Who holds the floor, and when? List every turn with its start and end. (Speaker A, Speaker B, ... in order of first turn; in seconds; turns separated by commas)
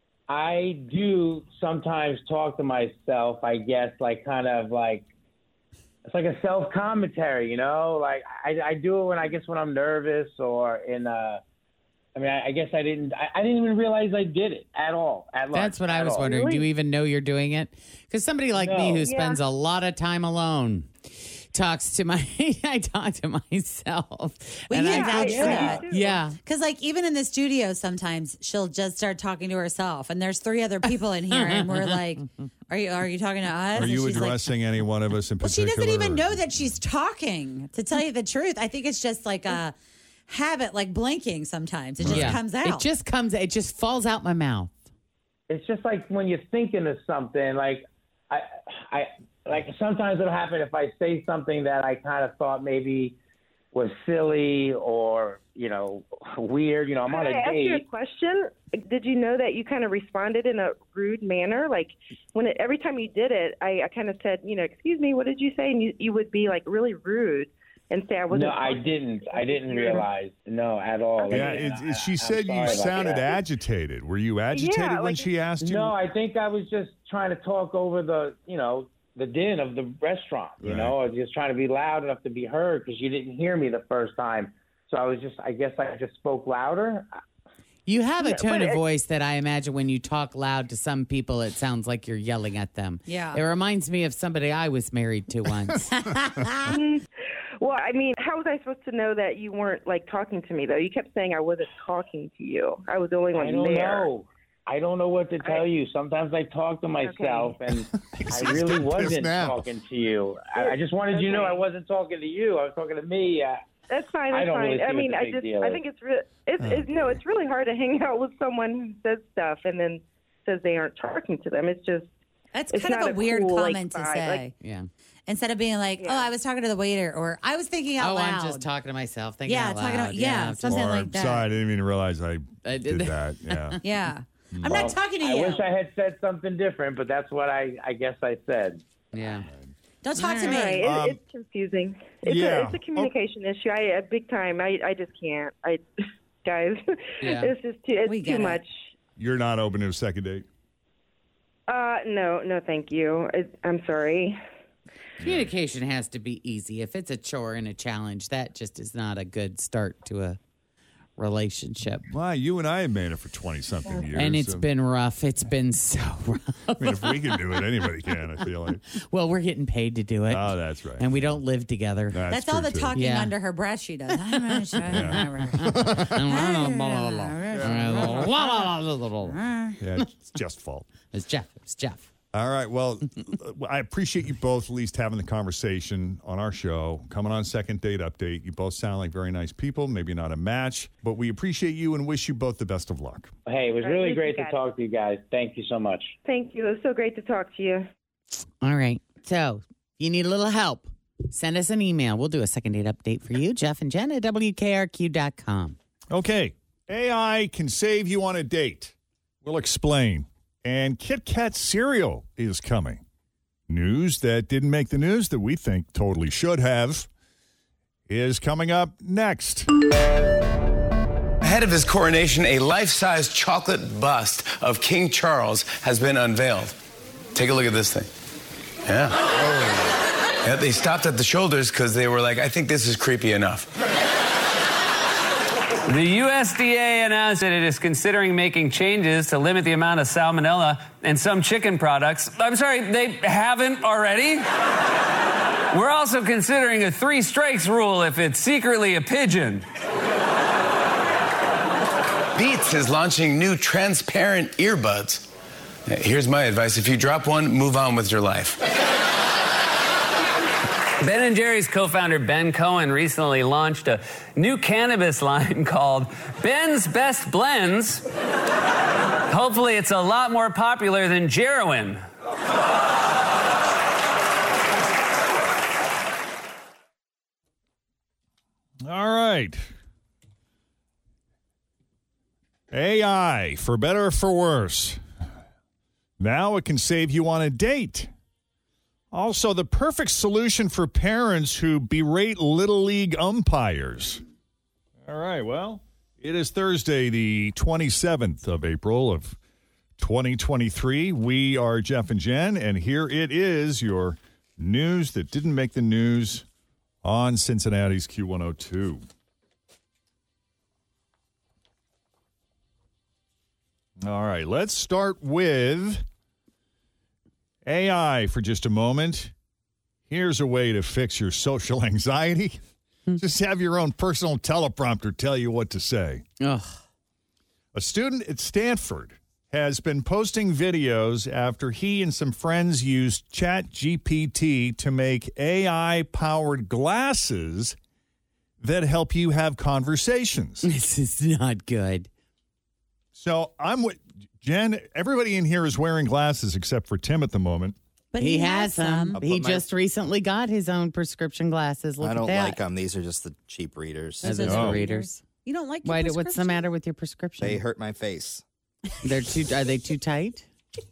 Speaker A: 0.3-5.1, Speaker A: 6.1-11.4, Speaker A: 12.2-16.4, Speaker B: 15.5-26.4, Speaker C: 16.2-16.6, Speaker A: 18.6-19.1, Speaker C: 19.1-19.4, Speaker D: 24.7-25.9, Speaker C: 24.9-26.2, Speaker A: 25.3-25.8, Speaker D: 26.4-34.5, Speaker B: 31.4-32.0, Speaker E: 33.8-36.8, Speaker D: 35.4-39.8, Speaker D: 40.3-42.9, Speaker E: 42.0-42.4, Speaker B: 42.0-44.7, Speaker A: 45.5-53.2, Speaker A: 53.7-57.9, Speaker C: 57.1-70.1, Speaker A: 68.3-73.3, Speaker C: 71.2-71.7, Speaker E: 71.3-75.9, Speaker C: 72.7-73.3, Speaker C: 74.5-75.3, Speaker A: 75.6-87.2, Speaker E: 80.6-81.0, Speaker B: 87.9-96.8, Speaker C: 88.2-88.8, Speaker D: 93.1-93.4, Speaker C: 96.7-97.0, Speaker C: 97.6-104.1, Speaker A: 103.3-113.6, Speaker C: 107.0-107.5, Speaker E: 108.1-109.7, Speaker C: 110.6-111.6, Speaker C: 113.9-122.1, Speaker A: 114.3-115.8, Speaker E: 116.6-116.9, Speaker D: 122.5-124.5, Speaker C: 122.7-124.5, Speaker B: 124.6-124.9, Speaker D: 125.3-128.6, Speaker C: 126.0-126.3, Speaker B: 128.0-130.9, Speaker D: 129.5-131.5, Speaker E: 130.6-133.8, Speaker B: 132.7-133.8, Speaker D: 133.8-135.7, Speaker E: 134.5-134.9, Speaker A: 134.7-138.8, Speaker B: 139.1-139.5, Speaker D: 140.0-140.8, Speaker B: 140.2-140.6, Speaker C: 140.2-145.8, Speaker E: 140.6-141.2, Speaker E: 142.2-143.1, Speaker C: 146.4-148.9, Speaker B: 147.2-147.5, Speaker D: 148.1-148.6, Speaker E: 149.2-150.5, Speaker C: 151.7-154.4, Speaker E: 155.2-155.5, Speaker B: 155.2-160.4, Speaker B: 161.2-162.1, Speaker E: 162.1-164.7, Speaker B: 164.2-167.6, Speaker E: 166.8-168.8, Speaker B: 168.9-172.3, Speaker E: 170.3-171.4, Speaker E: 172.1-172.9, Speaker D: 172.3-178.7, Speaker B: 172.9-173.3, Speaker B: 174.5-179.4, Speaker E: 174.9-176.2, Speaker E: 177.5-178.3, Speaker D: 179.2-179.8, Speaker E: 179.8-180.9, Speaker B: 181.1-182.1, Speaker E: 182.3-193.3, Speaker A: 193.5-196.2, Speaker C: 193.8-194.6, Speaker C: 196.2-197.9, Speaker B: 198.6-205.8, Speaker E: 206.1-213.0, Speaker E: 213.7-217.1, Speaker E: 218.1-219.7, Speaker F: 221.4-226.8, Speaker F: 227.3-228.1, Speaker F: 228.8-229.2, Speaker F: 230.4-233.7, Speaker G: 235.9-244.4, Speaker G: 245.7-249.7, Speaker F: 252.3-255.3, Speaker F: 255.9-258.6, Speaker G: 261.0-268.0, Speaker G: 269.3-272.0, Speaker E: 278.8-279.6, Speaker E: 282.7-285.0, Speaker E: 286.2-288.1, Speaker E: 289.1-294.2, Speaker E: 295.0-299.4, Speaker E: 300.0-306.4, Speaker E: 307.0-309.1, Speaker E: 314.0-316.0, Speaker E: 317.6-319.3, Speaker E: 320.1-322.6, Speaker E: 323.2-326.2, Speaker B: 326.4-326.8, Speaker E: 327.7-337.8, Speaker E: 338.6-340.7, Speaker B: 340.6-342.1, Speaker E: 343.1-347.8, Speaker D: 348.1-349.2, Speaker B: 348.2-352.6, Speaker H: 349.2-349.7, Speaker H: 352.0-354.4, Speaker B: 354.2-355.2, Speaker D: 354.2-356.7, Speaker E: 354.5-354.8, Speaker B: 355.9-357.6, Speaker H: 357.4-358.4, Speaker B: 359.0-360.5